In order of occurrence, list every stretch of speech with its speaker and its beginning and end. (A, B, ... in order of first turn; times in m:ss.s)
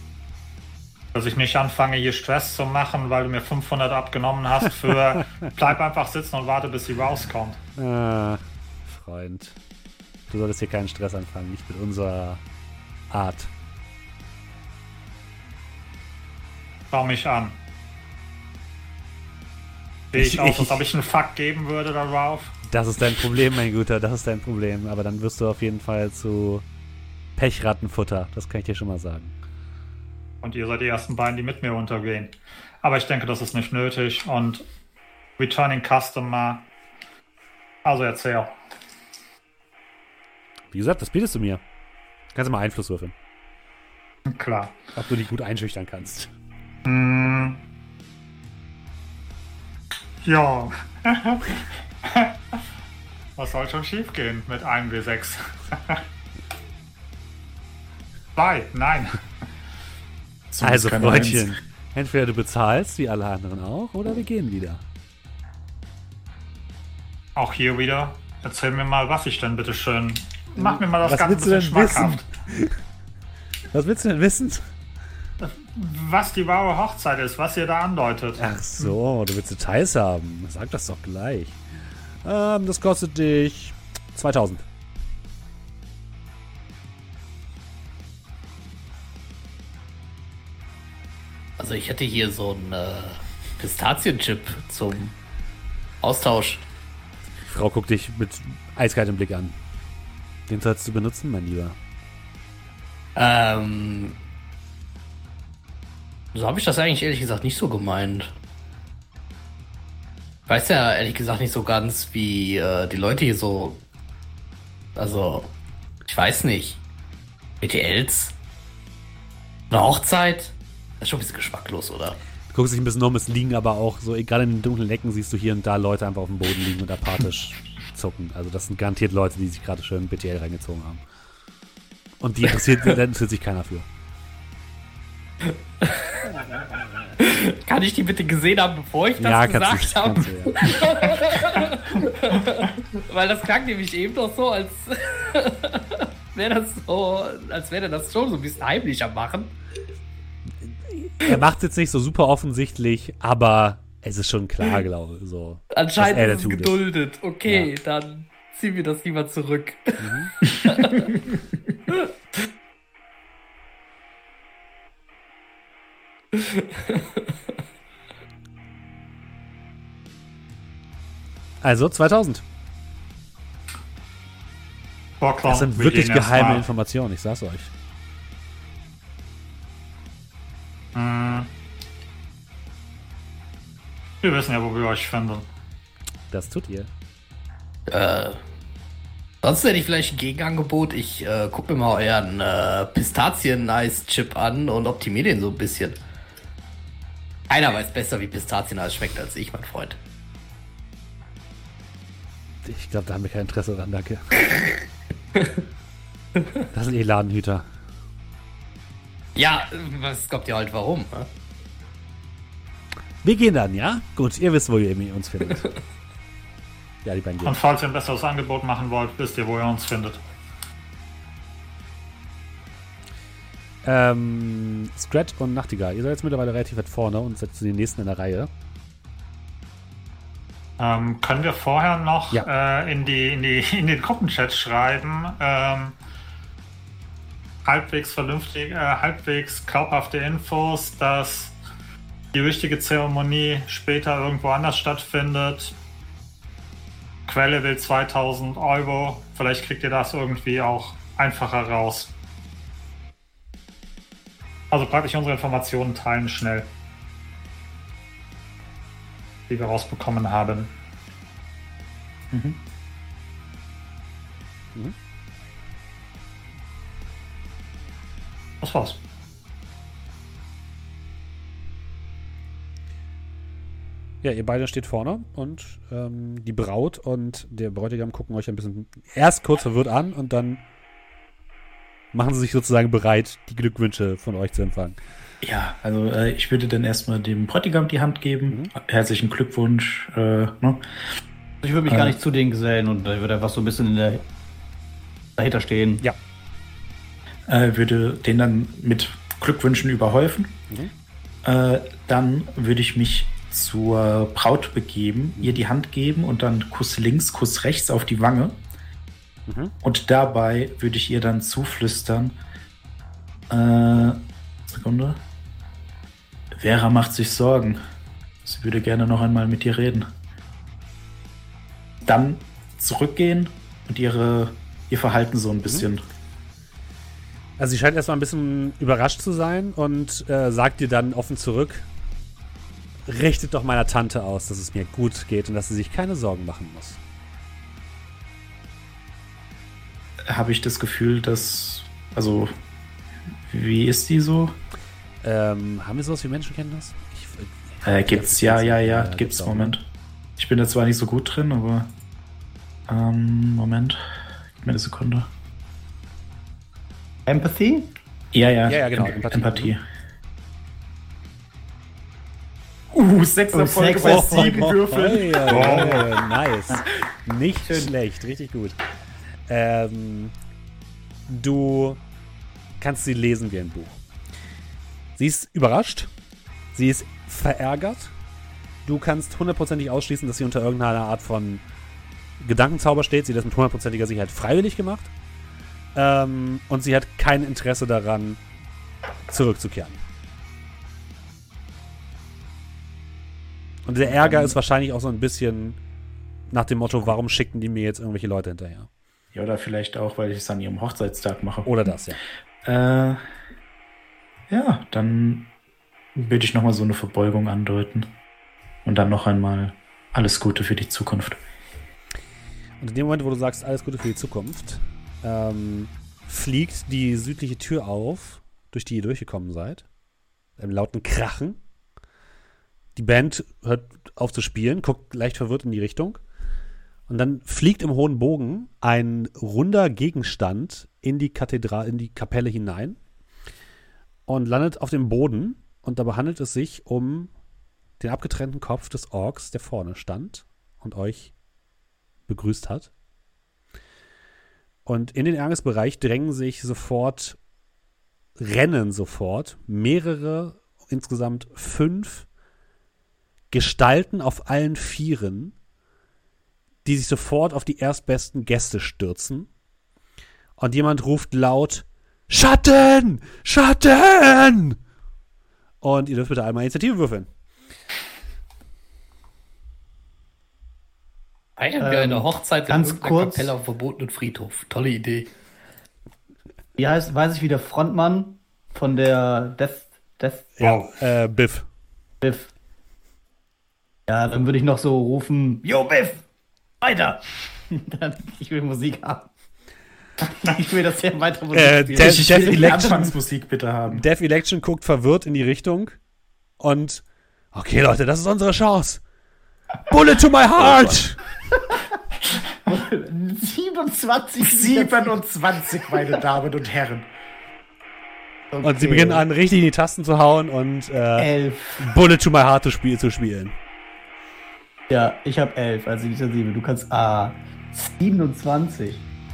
0:01.1-0:07.6 A
0:07.8-0:09.6 B
0:10.3-0:12.4 B
0:13.1-0:13.5 B
0:16.9-0:17.6 A
0:20.1-0:22.5 A
0:20.2-0:20.8 B
0:22.7-0:26.6 B
0:27.4-0:29.3 B
0:30.4-0:34.6 A
0:35.4-0:36.6 A
0:37.8-0:38.5 A
0:40.7-0:41.6 B
0:42.3-0:43.1 B
0:44.3-0:44.8 A
0:44.9-0:46.3 B
0:46.8-0:47.6 A
0:50.2-0:52.3 A
0:53.4-0:56.0 A
0:58.3-0:59.2 A
1:00.5-1:01.5 C
1:00.6-1:04.8 B
1:07.4-1:12.2 A
1:10.6-1:12.7 B
1:13.7-1:14.7 B
1:15.4-1:18.9 A
1:18.4-1:21.6 B
1:22.2-1:24.6 B
1:31.6-1:35.1 D
1:36.0-1:36.6 D
1:37.5-1:39.5 B
1:40.5-1:41.8 B
1:43.2-1:44.2 D
1:46.3-1:48.3 D
1:50.5-1:53.8 D
1:55.0-1:55.5 D
1:56.0-1:56.8 D
1:57.6-1:58.3 D
1:59.7-2:02.2 D
2:02.5-2:11.0 B
2:12.2-2:13.8 B
2:15.4-2:16.3 D
2:16.7-2:17.1 B
2:17.2-2:29.5 D
2:19.2-2:20.8 B
2:30.6-2:36.8 B
2:35.7-2:41.2 D
2:37.4-2:37.7 B
2:40.0-2:40.3 B
2:46.3-2:47.3 D
2:51.6-2:52.4 B
2:55.2-2:56.7 A
2:55.5-2:57.7 B
3:00.9-3:01.5 A
3:04.2-3:05.4 A
3:06.3-3:06.9 B
3:07.9-3:08.4 D
3:09.4-3:16.0 D
3:17.5-3:20.0 D
3:22.6-3:24.8 B
3:26.7-3:27.6 B
3:29.3-3:31.3 D
3:33.2-3:35.7 B
3:37.0-3:37.6 B
3:37.4-3:40.2 A
3:43.8-3:48.5 B
3:50.8-3:56.0 A
3:57.6-4:01.6 A
4:02.3-4:05.7 A
4:07.2-4:12.1 A
4:14.7-4:16.7 A
4:19.5-4:20.7 A
4:22.3-4:22.6 C
4:28.6-4:29.0 A
4:34.2-4:40.6 B
4:42.1-4:45.0 B
4:45.4-4:50.8 C
4:51.6-4:54.2 E
4:51.9-4:52.2 C
4:55.4-4:56.0 E
4:57.5-5:00.5 C
5:01.4-5:08.6 C
5:09.5-5:09.7 B
5:09.8-5:12.4 C
5:13.5-5:15.2 C
5:16.5-5:17.8 C
5:18.4-5:20.1 C
5:22.0-5:26.0 C
5:27.6-5:31.8 B
5:33.0-5:37.0 B
5:40.2-5:42.5 C
5:43.5-5:44.6 C
5:45.2-5:49.7 B
5:47.8-5:49.8 C
5:50.4-5:51.9 C
5:52.9-5:54.0 C
5:54.6-5:55.3 C
5:57.2-5:57.9 E
5:58.3-5:59.8 C
5:58.7-5:59.7 B
6:02.9-6:06.1 C
6:03.5-6:04.8 E
6:04.0-6:08.8 B
6:05.5-6:06.1 A
6:09.5-6:10.3 B
6:11.3-6:12.0 B
6:12.8-6:14.0 B
6:15.2-6:16.1 B
6:16.7-6:18.1 B
6:18.8-6:21.6 B
6:22.4-6:25.1 B
6:25.9-6:28.4 B
6:29.3-6:30.0 B
6:33.8-6:35.8 B
6:34.0-6:34.6 C
6:36.5-6:38.9 B
6:39.3-6:41.7 C
6:41.6-6:42.2 B
6:42.6-6:43.2 C
6:44.5-6:45.5 C
6:46.1-6:48.1 C
6:48.8-6:51.4 C
6:52.8-6:59.8 B
7:00.6-7:01.6 B
7:03.0-7:06.2 B
7:07.1-7:13.0 B
7:14.3-7:17.3 B
7:18.0-7:21.3 B
7:22.3-7:22.9 B
7:24.8-7:27.4 B
7:28.4-7:32.3 B
7:33.5-7:35.5 B
7:36.8-7:39.5 B
7:40.6-7:44.8 B
7:45.8-7:47.3 B
7:51.6-7:55.3 D
7:51.8-7:53.5 E
7:56.8-8:00.5 E
8:00.6-8:01.7 B
8:00.6-8:00.9 A
8:02.2-8:02.5 E
8:04.1-8:06.2 E
8:06.8-8:09.3 E
8:10.2-8:13.0 E
8:11.5-8:13.2 B
8:12.0-8:14.0 C
8:13.9-8:16.0 B
8:16.6-8:19.0 B
8:19.9-8:21.2 B
8:20.6-8:21.0 C
8:22.6-8:25.2 E
8:24.4-8:27.1 C
8:25.7-8:26.2 E
8:28.5-8:29.2 E
8:28.6-8:33.5 B
8:31.2-8:31.9 E
8:34.9-8:39.0 E